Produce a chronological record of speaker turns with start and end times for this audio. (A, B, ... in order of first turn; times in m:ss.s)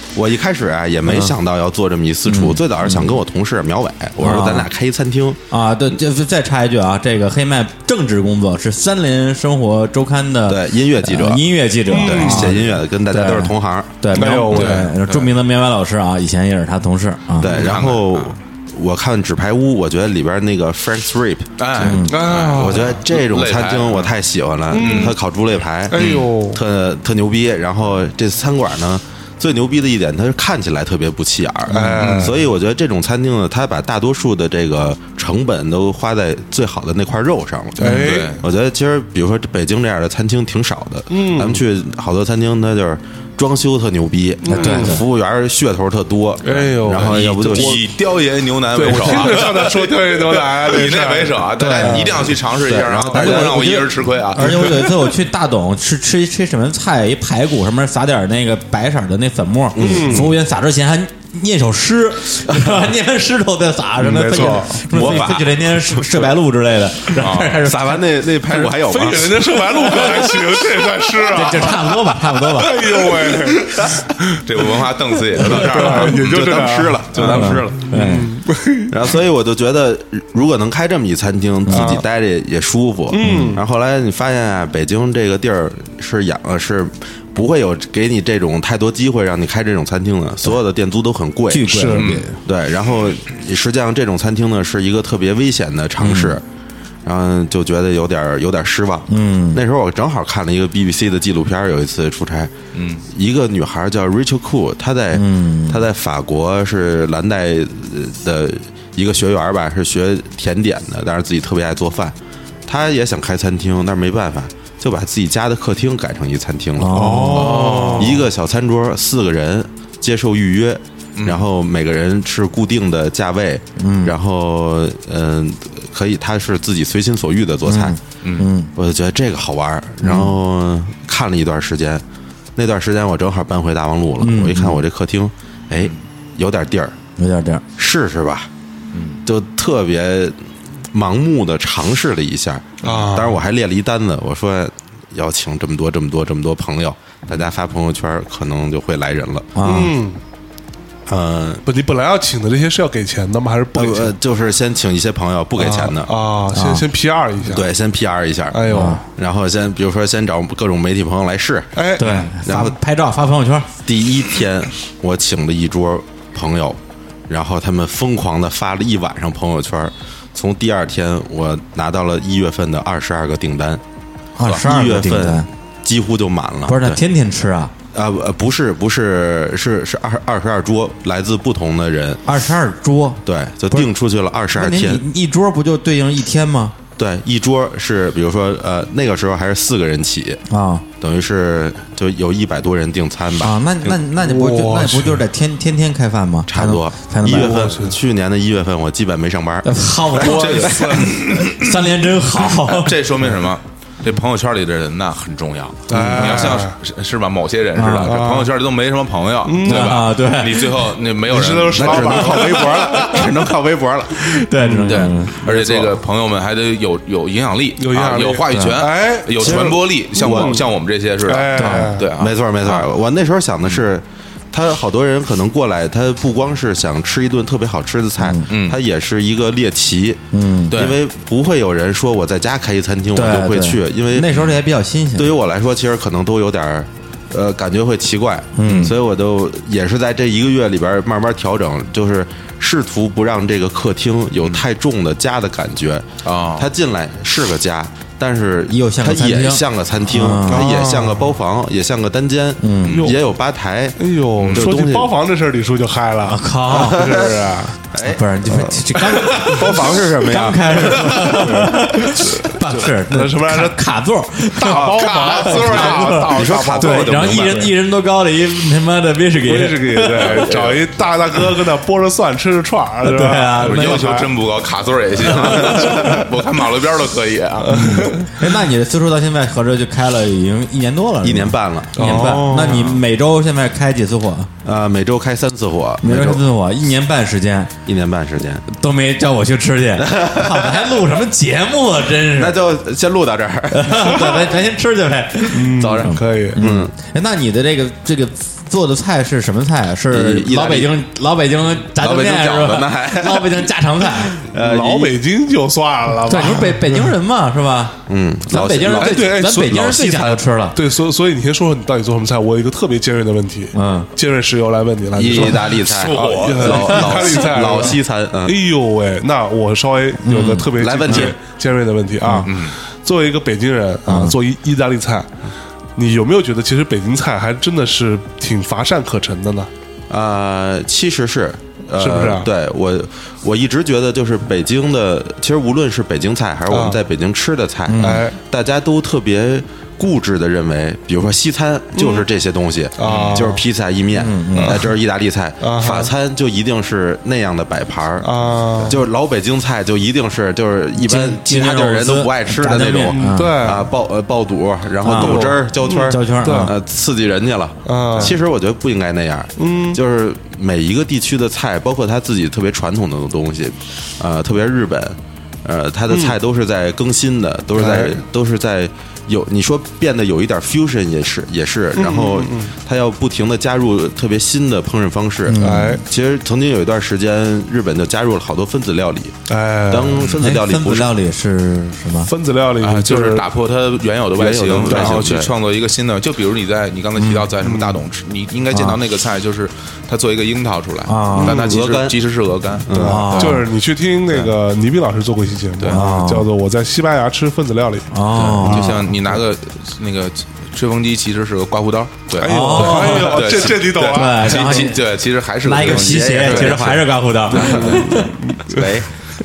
0:00.1-0:05.4 A
0:01.0-0:01.4 B
0:02.3-0:03.2 B
0:04.2-0:04.7 B
0:05.5-0:17.6 B
0:10.5-0:14.1 A
0:11.9-0:12.6 C
0:14.1-0:14.9 C
0:14.5-0:15.3 D
0:17.4-0:22.0 A
0:17.4-0:18.4 D
0:21.6-0:24.1 D
0:21.8-0:22.4 B
0:21.9-0:23.0 C
0:22.5-0:47.8 A
0:24.7-0:25.2 C
0:24.8-0:25.2 D
0:25.9-0:26.6 C
0:26.0-0:26.3 D
0:31.7-0:32.4 C
0:31.8-0:32.1 B
0:32.0-0:32.3 D
0:37.8-0:38.4 C
0:37.9-0:38.4 D
0:41.1-0:41.6 C
0:44.4-0:45.0 C
0:44.5-0:45.0 B
0:46.4-0:47.8 C
0:46.5-0:54.9 D
0:48.7-0:52.1 C
0:48.9-0:49.3 A
0:51.6-0:52.1 B
0:51.8-0:53.9 A
0:53.1-1:08.3 B
0:54.4-0:54.8 C
0:59.8-1:00.3 A
0:59.8-1:00.3 C
1:04.0-1:05.1 C
1:04.9-1:06.3 A
1:07.2-1:07.6 D
1:07.6-1:09.6 A
1:08.6-1:14.4 C
1:09.7-1:13.1 B
1:14.4-1:16.5 D
1:15.4-1:18.9 C
1:15.5-1:18.0 A
1:17.1-1:17.8 D
1:17.2-1:18.4 B
1:18.9-1:36.4 A
1:21.7-1:22.0 B
1:21.7-1:22.0 C
1:23.1-1:23.6 C
1:23.2-1:23.6 B
1:31.5-1:32.4 B
1:31.6-1:32.1 C
1:32.0-1:32.2 D
1:36.0-1:36.4 B
1:37.0-1:42.5 A
1:39.1-1:39.6 B
1:42.7-1:43.1 D
1:43.1-1:52.2 A
1:45.1-1:45.8 B
1:52.7-2:08.0 A
1:56.8-1:57.9 B
1:56.9-1:58.2 C
1:57.4-1:58.2 D
2:01.2-2:01.4 D
2:03.8-2:04.2 B
2:07.6-2:08.7 B
2:08.2-2:08.5 D
2:08.8-2:12.0 A
2:10.0-2:10.4 B
2:12.6-2:17.0 A
2:14.2-2:14.8 B
2:17.2-2:17.6 B
2:17.8-2:18.5 A
2:18.9-2:19.2 D
2:19.2-2:20.4 A
2:20.9-2:29.6 A
2:22.8-2:23.4 C
2:29.6-2:30.0 B
2:29.6-2:30.2 C
2:31.1-2:31.6 A
2:31.7-2:34.1 C
2:33.7-2:36.1 A
2:35.6-2:37.7 C
2:36.5-2:36.9 B
2:37.4-2:42.8 A
2:38.5-2:39.0 C
2:38.7-2:39.0 B
2:41.8-2:42.2 C
2:42.0-2:43.7 B
2:43.9-2:53.8 A
2:54.4-2:55.5 B
2:54.5-2:57.0 A
2:56.7-2:57.7 B
2:57.9-3:02.2 A
3:02.3-3:03.9 B
3:03.2-3:05.0 A
3:04.5-3:06.8 B
3:07.0-3:10.4 A
3:10.5-3:10.9 B
3:11.0-3:14.0 A
3:13.4-3:17.7 B
3:14.2-3:15.2 C
3:16.5-3:20.7 A
3:17.3-3:18.0 C
3:19.6-3:23.0 B
3:20.2-3:21.9 D
3:20.4-3:21.1 C
3:22.6-3:32.9 D
3:25.9-3:26.8 C
3:25.9-3:26.6 B
3:27.8-3:28.3 B
3:28.1-3:28.5 C
3:29.4-3:30.0 C
3:29.6-3:31.0 B
3:31.3-3:33.2 C
3:31.7-3:34.4 A
3:31.9-3:33.2 B
3:34.2-3:35.4 B
3:34.6-3:36.0 C
3:34.8-3:42.9 D
3:37.8-3:40.7 C
3:38.5-3:38.8 B
3:39.4-3:40.6 A
3:41.2-3:42.1 C
3:41.6-3:42.0 B
3:42.1-3:54.3 A
3:48.2-3:48.5 B
3:48.5-3:48.8 D
3:50.3-3:50.8 B
3:50.7-3:51.0 D
3:53.1-3:55.4 B
3:54.3-3:54.6 D
3:55.2-4:15.1 A
3:58.6-3:59.0 B
3:58.6-3:59.0 D
4:06.2-4:06.7 D
4:08.7-4:10.7 B
4:10.4-4:11.3 C
4:12.6-4:13.1 B
4:12.8-4:13.1 D
4:14.0-4:17.8 C
4:14.4-4:14.7 D
4:16.2-4:17.1 B
4:16.7-4:18.4 A
4:18.0-4:30.4 B
4:18.6-4:19.6 C
4:19.0-4:21.4 A
4:21.2-4:23.8 C
4:24.6-4:27.7 C
4:24.6-4:27.7 A
4:25.0-4:25.9 D
4:29.4-4:34.4 C
4:30.2-4:30.9 D
4:33.0-4:34.0 B
4:33.6-4:38.3 D
4:35.2-4:36.0 A
4:35.7-4:36.2 C
4:37.6-4:38.2 C
4:37.7-4:44.5 B
4:41.2-4:42.3 A
4:42.0-4:42.9 C
4:44.6-4:46.4 A
4:46.0-4:47.7 B
4:47.9-4:48.7 A
4:48.7-4:52.6 B
4:50.0-4:51.0 A
4:52.4-4:54.5 A
4:53.7-5:04.4 B
4:55.5-4:56.6 C
4:55.7-4:56.9 A
5:00.1-5:00.9 A
5:01.9-5:03.7 A
5:04.5-5:05.2 A
5:04.6-5:07.1 C
5:06.2-5:10.8 B
5:08.1-5:09.4 A
5:08.9-5:25.3 C
5:13.7-5:14.1 B
5:15.2-5:18.6 A
5:15.9-5:16.7 D
5:20.2-5:20.8 B
5:20.8-5:21.4 A
5:22.2-5:22.5 B
5:22.4-5:22.8 D
5:24.1-5:24.4 B
5:26.0-5:29.7 C
5:30.1-6:19.4 A
5:32.0-5:32.5 C
5:36.7-5:37.0 C
5:37.9-5:38.3 B
5:38.0-5:38.4 C
5:42.0-5:42.3 C
5:43.0-5:43.7 C
5:43.0-5:43.5 D
5:44.1-5:44.9 B
5:45.6-5:46.1 C
5:48.2-5:49.0 C
5:51.0-5:53.9 B
5:53.1-5:53.9 C
5:55.0-5:56.8 B
5:55.1-5:56.7 C
5:57.8-5:58.4 C
5:59.6-6:00.0 C
6:06.1-6:06.4 C
6:07.8-6:08.2 C
6:12.0-6:12.7 C
6:15.5-6:16.0 B
6:15.6-6:16.0 C
6:19.5-6:20.3 C
6:19.9-6:21.1 A
6:20.4-6:22.3 B
6:22.2-6:23.5 C
6:22.8-6:33.7 D
6:24.4-6:25.5 A
6:24.8-6:25.3 C
6:27.2-6:27.5 B
6:27.6-6:28.0 C
6:28.7-6:29.0 B
6:31.1-6:31.6 B
6:31.4-6:31.7 C
6:31.5-6:32.2 A
6:32.9-6:33.3 A
6:32.9-6:39.0 C
6:33.0-6:33.7 B
6:35.9-6:36.5 B
6:38.1-6:39.1 B
6:38.3-6:48.1 D
6:42.4-6:44.9 C
6:42.4-6:45.1 B
6:45.6-6:48.3 B
6:46.2-6:46.9 A
6:47.5-6:48.8 C
6:48.7-6:49.1 A